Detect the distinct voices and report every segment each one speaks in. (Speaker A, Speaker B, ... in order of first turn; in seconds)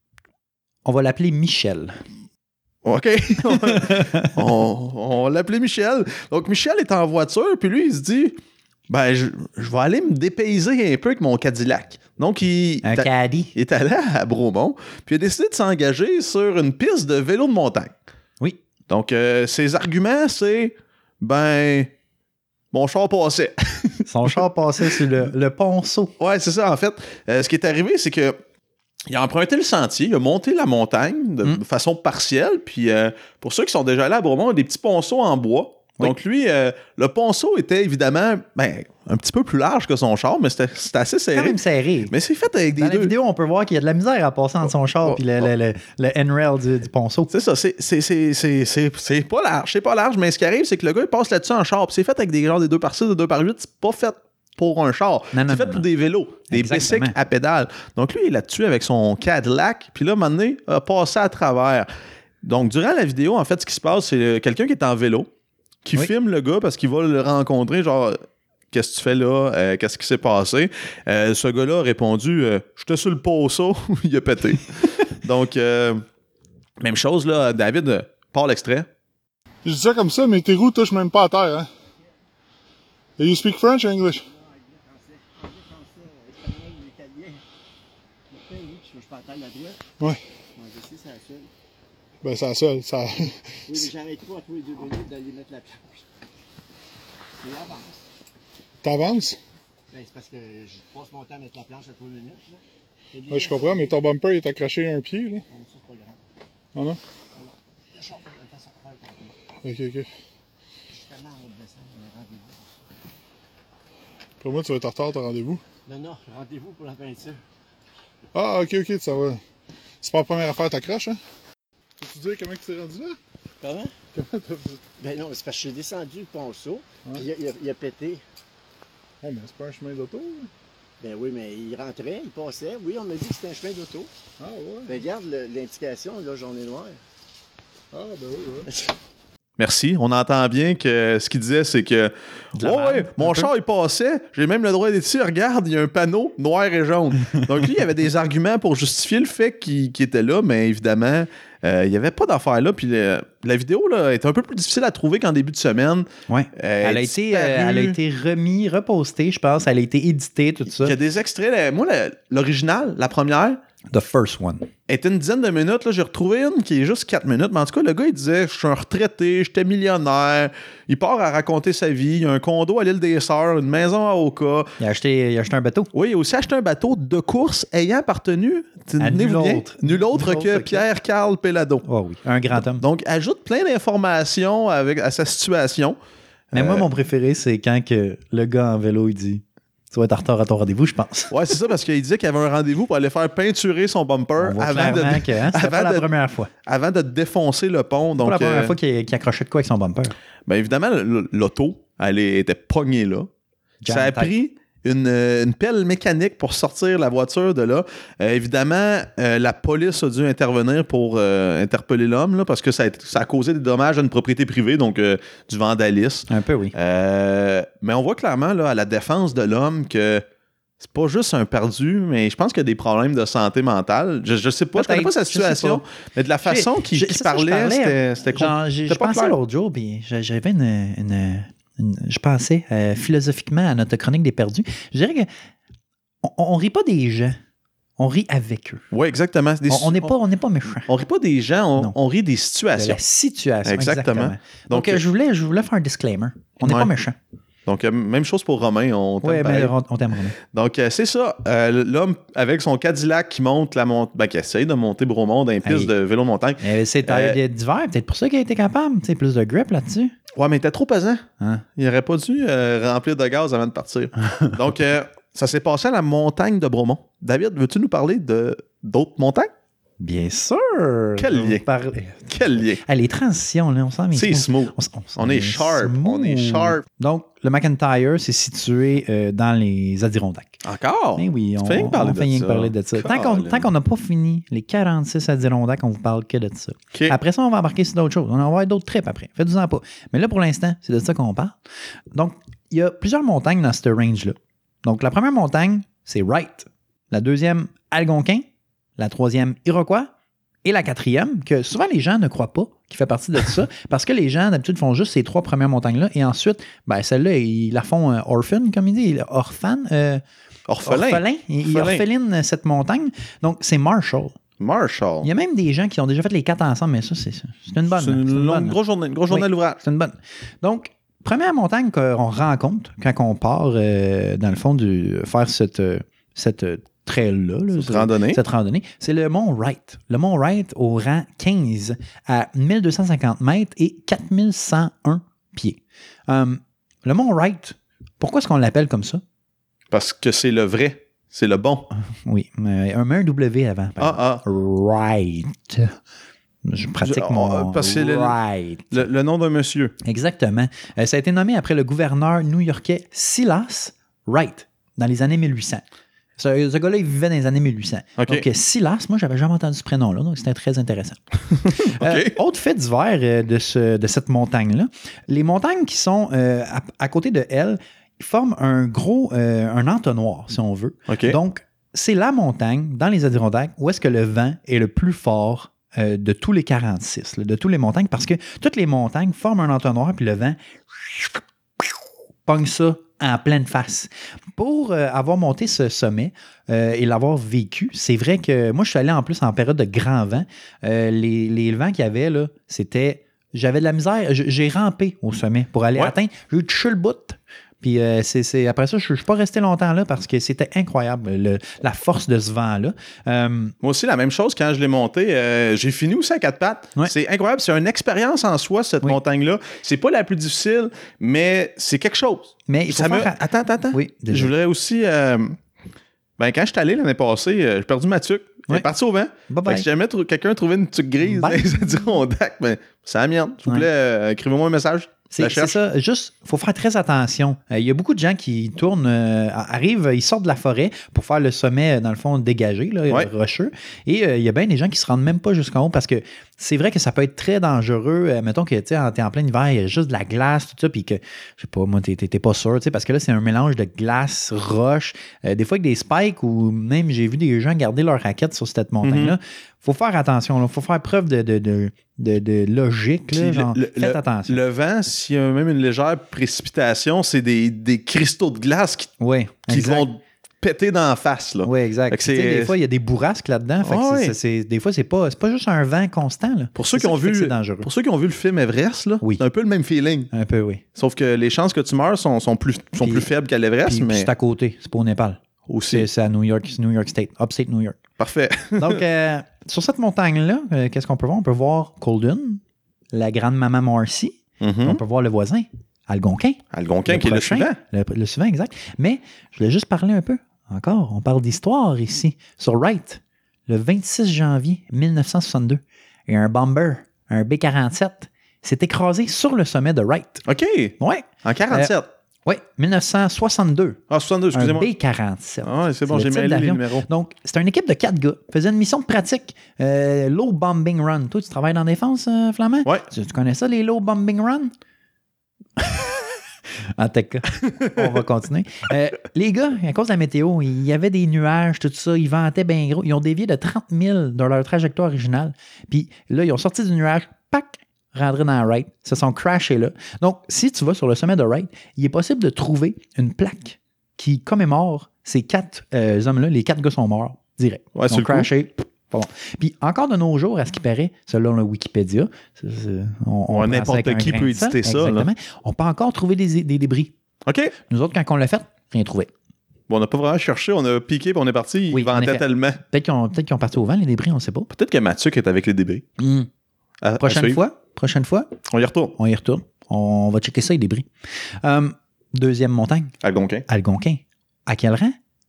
Speaker A: 0.8-2.0, 3.5-4.3, 12.8-13.5, 24.1-26.1, 41.3-42.1, 42.8-47.3, 55.3-55.9, 56.5-57.1, 142.6-143.5, 156.3-160.9, 163.9-164.7, 174.8-175.9, 179.0-180.8, 181.8-182.8, 186.5-191.3, 194.4-196.5, 198.2-200.1, 203.8-204.3, 216.3-216.7, 224.7-225.8, 226.4-235.3, 236.2-237.4, 238.0-238.8, 239.7-240.9, 242.8-247.2, 249.2-250.3, 255.6-255.9, 256.6-260.1, 261.4-261.6, 264.3-264.5, 270.0-272.3, 272.8-280.6, 281.2-291.6, 292.1-298.4, 299.0-300.1, 300.6-310.2, 310.8-314.4, 315.2-318.8, 319.3-339.2, 342.0-345.9, 346.6-349.0, 350.0-355.8, 356.4-403.7, 412.7-413.4, 413.9-414.5, 419.5-419.9, 421.2-421.9, 425.3-454.6, 459.2-460.1, 461.6-467.9, 470.3-470.8, 473.0-473.3, 473.8-478.0, 478.8-482.6, 483.1-500.4, 501.0-501.9, 502.4-504.0, 504.5-514.7, 515.8-516.0, 517.0-547.1, 547.9-549.3, 551.9-554.7, 556.2-556.5, 557.2-558.5, 559.1-561.1, 561.6-563.1, 563.7-565.1
Speaker B: 2.8-8.4, 8.9-17.9, 18.9-21.9, 22.7-24.4, 24.9-25.2, 26.2-28.4, 29.1-43.1, 47.3-61.9, 62.4-65.3, 65.8-68.2, 68.7-76.0, 76.8-78.9, 139.6-158.0, 160.8-163.6, 164.9-174.8, 175.9-181.8, 182.7-186.0, 186.5-186.8, 191.3-196.1, 196.6-198.7, 200.5-203.3, 203.9-220.2, 220.8-229.3, 238.9-240.1, 240.9-243.0, 243.6-245.0, 246.6-246.9, 247.7-249.7, 250.4-257.4, 260.3-261.2, 261.8-269.5, 271.2-271.6, 272.2-272.8, 274.1-276.8, 280.6-283.7, 310.7-312.0, 314.6-315.3, 317.9-319.8, 327.7-328.4, 339.9-341.9, 344.0-344.4, 347.0-348.4, 348.9-349.9, 358.2-358.4, 361.7-362.4, 371.1-371.4, 403.8-415.6, 416.4-425.8, 449.0-449.4, 453.3-459.1, 459.7-462.7, 463.8-464.4, 466.7-470.3, 470.9-474.3, 475.7-476.1, 478.2-479.0, 484.6-485.0, 486.7-487.8, 500.4-502.1, 504.1-504.9, 505.6-507.1, 537.9-538.5, 543.5-545.3, 547.5-547.7, 549.9-552.8, 554.7-556.0, 557.0-557.6, 558.6-559.1, 563.2-563.6
Speaker C: 79.6-81.7, 83.2-84.2, 92.2-93.9, 98.8-99.4, 103.3-105.4, 109.6-110.1, 114.4-115.6, 118.3-119.4, 120.0-121.2, 122.0-123.2, 124.1-124.8, 129.2-130.5, 134.4-135.0, 137.9-138.7
Speaker D: 84.1-87.4, 88.3-89.8, 90.5-91.5, 93.7-96.0, 97.4-98.0, 99.9-102.6, 103.1-103.9, 105.5-106.2, 107.3-109.3, 110.9-112.7, 115.9-117.4, 123.6-123.9, 125.0-128.2, 131.0-134.1, 134.9-137.0